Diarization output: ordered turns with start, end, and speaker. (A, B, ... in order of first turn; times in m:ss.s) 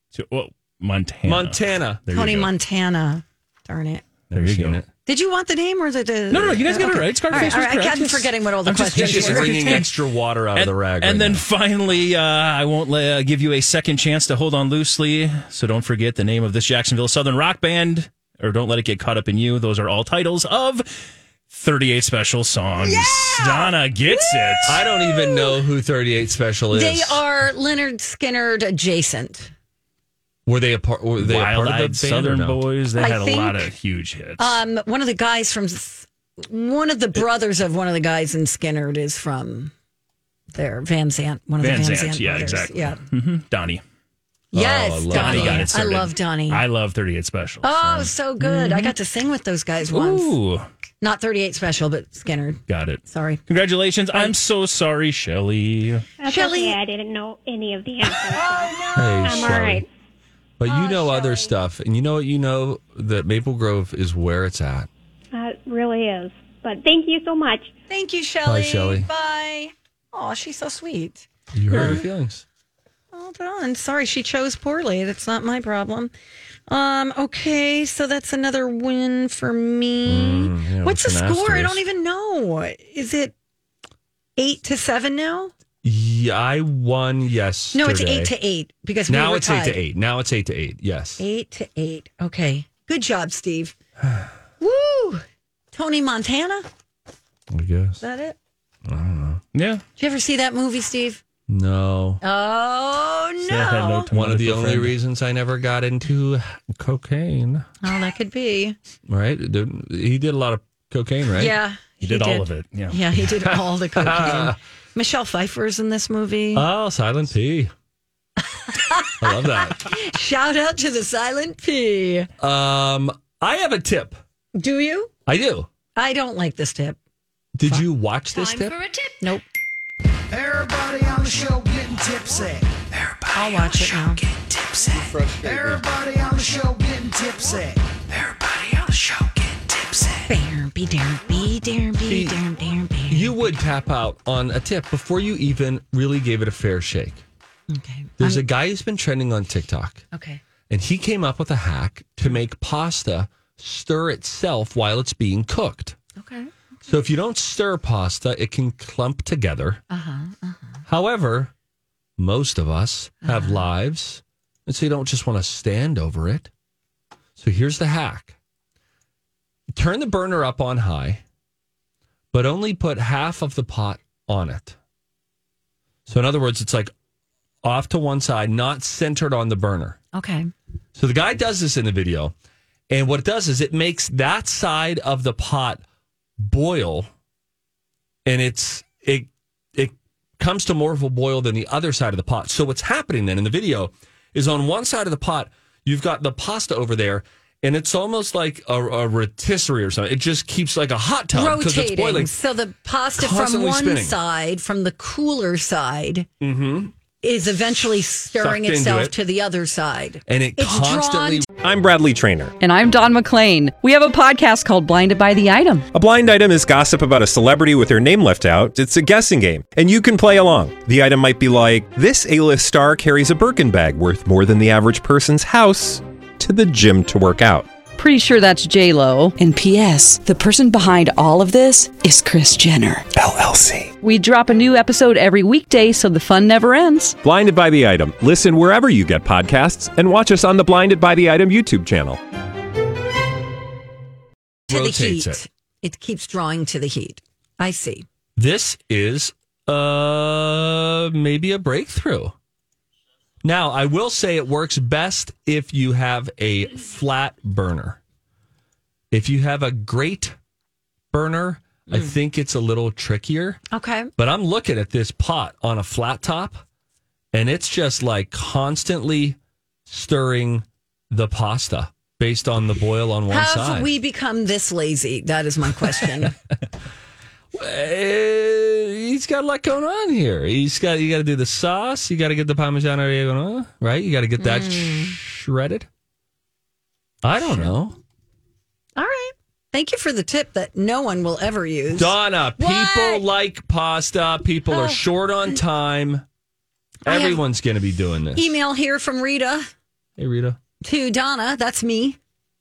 0:00.1-0:02.5 A
0:01.2-0:02.0 B
0:02.1-0:04.0 C
0:04.3-0:04.9 B
0:04.3-0:04.8 A
0:05.1-0:09.8 C
0:06.3-0:09.9 A
0:08.9-0:11.4 B
0:10.6-0:20.9 A
0:21.5-0:24.8 A
0:22.8-0:25.6 C
0:24.7-0:27.2 B
0:26.7-0:29.5 C
0:30.5-0:32.6 B
0:31.2-0:34.6 A
0:33.0-0:33.7 C
0:34.4-0:39.7 C
0:40.5-0:43.0 C
0:41.6-0:43.8 A
0:44.5-0:46.6 C
0:44.5-0:45.8 B
0:45.1-0:49.0 A
0:47.6-0:50.4 C
0:49.9-0:50.7 A
0:51.0-0:53.4 C
0:52.7-0:56.1 A
0:56.2-0:59.9 D
0:56.3-0:56.8 C
0:58.1-0:59.7 C
0:58.9-0:59.8 B
1:00.6-1:04.9 B
1:00.6-1:01.5 C
1:05.3-1:07.7 D
1:07.9-1:12.1 C
1:08.4-1:09.1 B
1:11.5-1:12.4 B
1:13.1-1:16.1 C
1:16.7-1:23.3 C
1:20.0-1:21.8 B
1:24.4-1:25.5 C
1:25.8-1:28.3 B
1:27.7-1:29.8 C
1:29.1-1:31.2 B
1:31.2-1:33.8 C
1:34.0-1:34.3 B
1:34.6-1:36.7 C
1:37.5-1:38.0 B
1:38.0-1:38.4 C
1:38.8-1:39.4 B
1:39.5-1:39.8 A
1:40.0-1:41.2 C
1:41.5-1:42.2 B
1:42.2-1:44.1 C
1:43.5-1:45.0 A
1:44.1-1:47.7 B
1:47.8-1:48.8 C
1:49.1-1:51.6 B
1:51.3-1:56.7 C
1:52.0-1:53.0 A
1:53.4-1:54.6 B
1:56.5-1:57.7 B
1:58.5-2:02.3 C
1:59.2-1:59.9 B
2:02.4-2:04.2 B
2:04.6-2:05.1 C
2:05.3-2:05.7 B
2:06.0-2:07.0 C
2:07.6-2:08.8 B
2:07.7-2:09.4 C
2:10.3-2:20.2 E
2:13.3-2:14.2 C
2:14.9-2:15.8 B
2:20.3-2:23.4 C
2:22.0-2:22.4 B
2:23.1-2:27.2 B
2:27.7-2:28.4 C
2:28.2-2:30.0 B
2:30.1-2:30.4 C
2:30.7-2:36.0 B
2:36.2-2:36.5 C
2:36.9-2:39.8 B
2:39.9-2:40.8 C
2:40.9-2:41.5 B
2:42.2-2:46.5 B
2:43.2-2:43.6 C
2:47.4-2:48.4 B
2:49.7-2:51.2 B
2:52.3-2:54.8 B
2:56.1-2:56.9 B
2:57.6-3:00.0 B
3:00.1-3:00.5 C
3:01.0-3:02.3 B
3:02.9-3:05.8 B
3:06.4-3:07.1 B
3:08.3-3:22.3 B
3:21.3-3:26.3 C
3:23.2-3:24.2 B
3:26.4-3:26.9 B
3:27.2-3:31.5 C
3:28.4-3:29.2 B
3:30.3-3:31.5 B
3:31.5-3:32.6 F
3:32.6-3:35.9 G
3:35.9-3:47.7 F
3:48.0-3:53.1 G
3:54.0-3:57.2 G
3:57.2-4:02.2 F
4:04.7-4:05.4 B
4:04.7-4:08.0 C
4:08.4-4:12.4 B
4:13.4-4:18.0 B
4:19.1-4:20.4 B
4:21.1-4:23.6 B
4:23.7-4:24.1 C
4:24.2-4:26.6 B
4:27.3-4:33.9 B
4:33.3-4:36.3 C
4:37.5-4:45.9 B
4:44.4-4:45.2 C
4:47.2-4:48.0 B
4:49.0-4:53.3 C
4:51.9-4:56.2 B
4:54.7-4:55.0 C
4:57.1-4:57.4 C
4:57.1-4:58.5 B
4:58.4-4:59.7 C
5:00.2-5:00.6 B
5:00.8-5:02.2 C